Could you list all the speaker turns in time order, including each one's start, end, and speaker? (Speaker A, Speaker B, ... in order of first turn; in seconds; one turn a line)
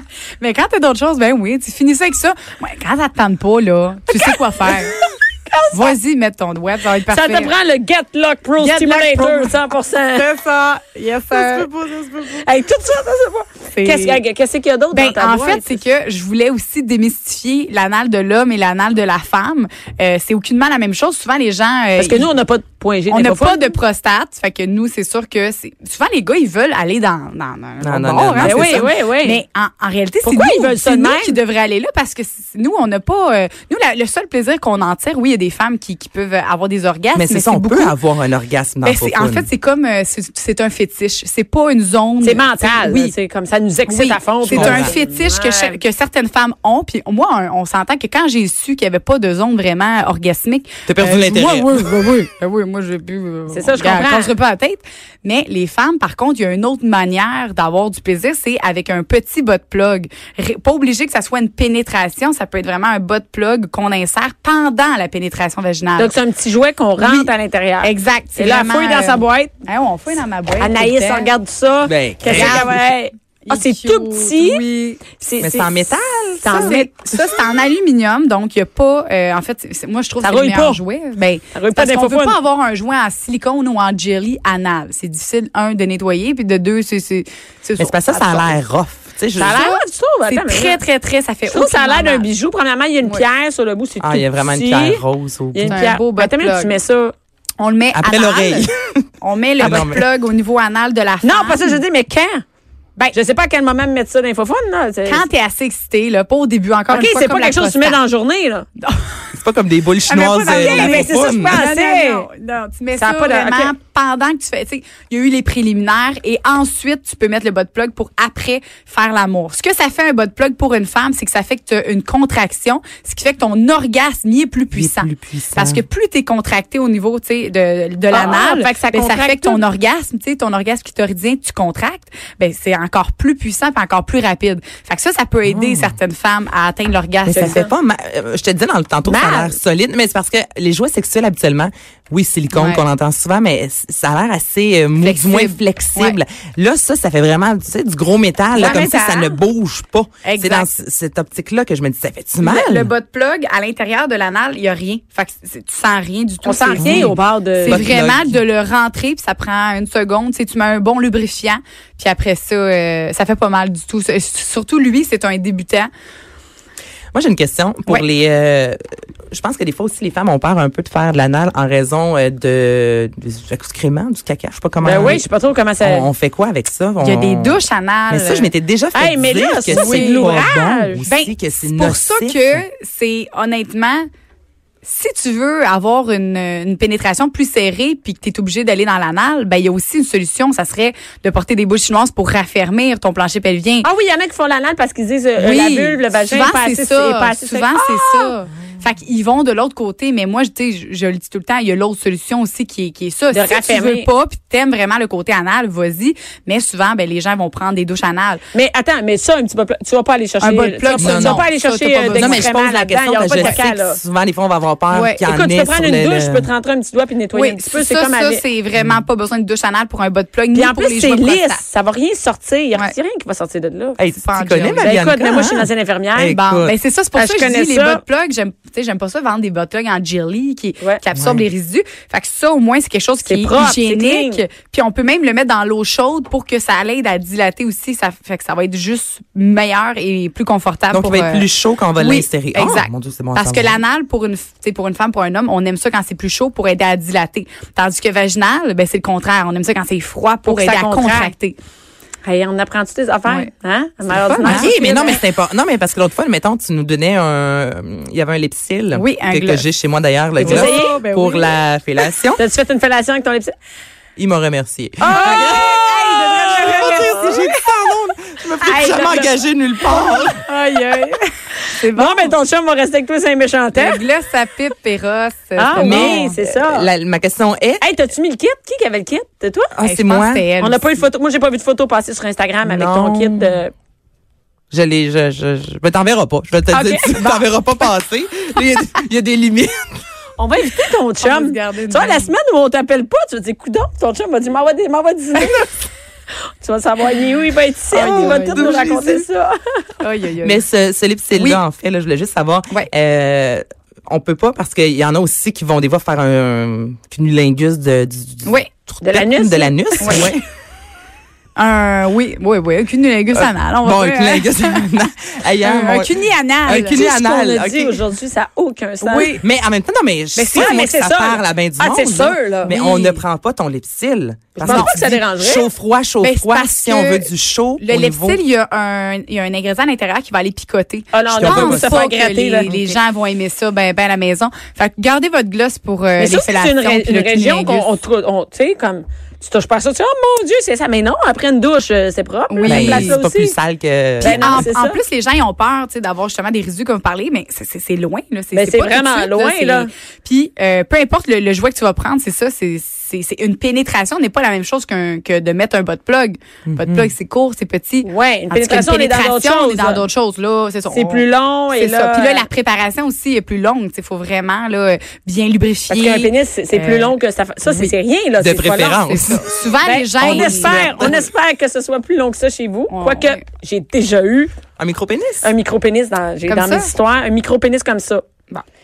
Speaker A: 0.4-5.0
Speaker B: 4.2-6.0
Speaker A: 5.7-7.5
Speaker B: 7.1-10.2
Speaker A: 8.6-9.6
Speaker A: 10.1-11.7
Speaker C: 11.4-12.3
Speaker B: 12.4-15.8
Speaker A: 13.8-14.2
Speaker A: 14.9-22.3
Speaker B: 22.0-23.8
Speaker A: 23.1-38.0
Speaker C: 27.8-28.9
Speaker B: 28.4-29.4
Speaker B: 30.2-31.4
Speaker C: 37.1-39.5
Speaker A: 38.8-43.1
Speaker B: 42.2-45.8
Speaker A: 43.9-66.2
Speaker C: 44.5-44.9
Speaker C: 50.9-51.9
Speaker B: 53.5-54.3
Speaker B: 66.0-69.5
Speaker A: 67.0-71.3
Speaker B: 70.6-74.6
Speaker C: 71.8-72.8
Speaker A: 72.2-72.9
Speaker A: 73.5-75.0
Speaker B: 75.1-75.9
Speaker C: 75.4-76.8
Speaker B: 76.4-76.9
Speaker A: 76.5-88.6
Speaker B: 80.2-80.8
Speaker B: 81.5-82.4
Speaker C: 87.8-89.7
Speaker B: 89.4-90.8
Speaker A: 89.5-92.3
Speaker B: 91.5-95.0
Speaker C: 94.0-95.8
Speaker B: 95.5-97.1
Speaker A: 95.7-96.7
Speaker A: 97.6-101.8
Speaker C: 97.9-99.0
Speaker C: 99.6-100.1
Speaker B: 101.2-102.4
Speaker B: 103.1-105.2
Speaker A: 105.1-108.0
Speaker B: 106.9-108.7
Speaker A: 108.8-109.3
Speaker C: 109.3-111.6
Speaker A: 110.0-137.7
Speaker B: 110.5-112.3
Speaker B: 113.0-113.7
Speaker C: 124.7-125.8
Speaker B: 128.1-129.6
Speaker C: 135.4-135.9
Speaker C: 137.2-152.9
Speaker B: 137.3-137.7
Speaker B: 139.1-139.6
Speaker A: 142.5-142.9
Speaker A: 145.0-146.2
Speaker A: 148.5-149.4
Speaker B: 148.6-148.9
Speaker A: 150.2-150.8
Speaker A: 152.4-165.9
Speaker B: 156.4-157.9
Speaker C: 156.8-158.4
Speaker C: 167.1-168.8
Speaker C: 169.3-175.2
Speaker B: 174.8-176.1
Speaker C: 175.8-182.6
Speaker A: 177.0-178.5
Speaker B: 178.9-181.1
Speaker A: 179.7-180.5
Speaker A: 181.1-184.1
Speaker A: 184.8-193.9
Speaker B: 193.8-198.3
Speaker A: 195.4-208.4
Speaker B: 203.3-204.1
Speaker B: 208.5-214.0
Speaker A: 210.4-212.5
Speaker C: 211.0-211.5
Speaker C: 212.1-216.5
Speaker A: 213.3-213.6
Speaker A: 214.9-215.2
Speaker B: 215.3-218.4
Speaker A: 217.3-221.6
Speaker C: 218.8-219.0
Speaker B: 220.5-224.0
Speaker C: 224.0-226.8
Speaker A: 224.1-224.9
Speaker B: 224.8-226.4
Speaker A: 226.3-251.6
Speaker B: 227.2-228.0
Speaker C: 231.2-231.5
Speaker B: 233.2-234.4
Speaker C: 240.9-243.8
Speaker B: 250.4-251.3
Speaker B: 252.2-255.2
Speaker A: 253.3-253.5
Speaker A: 254.1-254.7
Speaker C: 254.4-262.4
Speaker A: 258.9-259.7
Speaker B: 260.4-261.0
Speaker A: 260.4-261.6
Speaker B: 262.4-263.5
Speaker C: 264.2-270.4
Speaker B: 265.0-267.2
Speaker A: 265.1-267.7
Speaker B: 268.6-269.3
Speaker A: 269.9-272.4
Speaker B: 271.9-274.0
Speaker A: 273.7-276.4
Speaker B: 275.6-276.9
Speaker C: 275.8-277.8
Speaker B: 277.8-279.7
Speaker C: 279.8-280.5
Speaker A: 279.8-281.0
Speaker B: 280.6-283.7
Speaker C: 282.6-283.6
Speaker C: 284.7-290.0
Speaker B: 286.7-287.4
Speaker B: 290.4-295.7
Speaker A: 291.2-292.3
Speaker B: 296.6-299.6
Speaker A: 297.9-299.1
Speaker C: 298.0-299.2
Speaker A: 300.0-300.6
Speaker C: 300.4-310.4
Speaker A: 301.4-301.6
Speaker A: 308.4-308.7
Speaker B: 309.0-310.3
Speaker A: 310.0-310.3
Speaker A: 311.6-315.1
Speaker C: 313.3-318.0
Speaker A: 315.6-317.1
Speaker B: 316.9-319.4
Speaker A: 319.0-319.4
Speaker C: 319.4-328.4
Speaker A: 320.4-320.8
Speaker B: 320.5-322.7
Speaker A: 322.7-323.2
Speaker B: 324.6-325.7
Speaker A: 324.6-325.1
Speaker A: 326.2-337.9
Speaker B: 331.1-332.7
Speaker C: 331.3-332.0
Speaker C: 332.6-333.0
Speaker B: 336.2-343.6
Speaker A: 342.5-343.2
Speaker C: 342.6-344.7
Speaker B: 344.2-345.0
Speaker A: 344.2-367.1
Speaker B: 348.5-349.9
Speaker C: 356.7-357.1
Speaker B: 358.0-360.0
Speaker B: 360.9-362.5
Speaker B: 365.9-369.2
Speaker C: 368.4-369.5
Speaker A: 369.0-371.3
Speaker B: 369.8-374.5
Speaker C: 370.2-371.2
Speaker A: 372.9-373.4
Speaker C: 374.8-375.5
Speaker B: 375.4-378.2
Speaker A: 376.5-376.9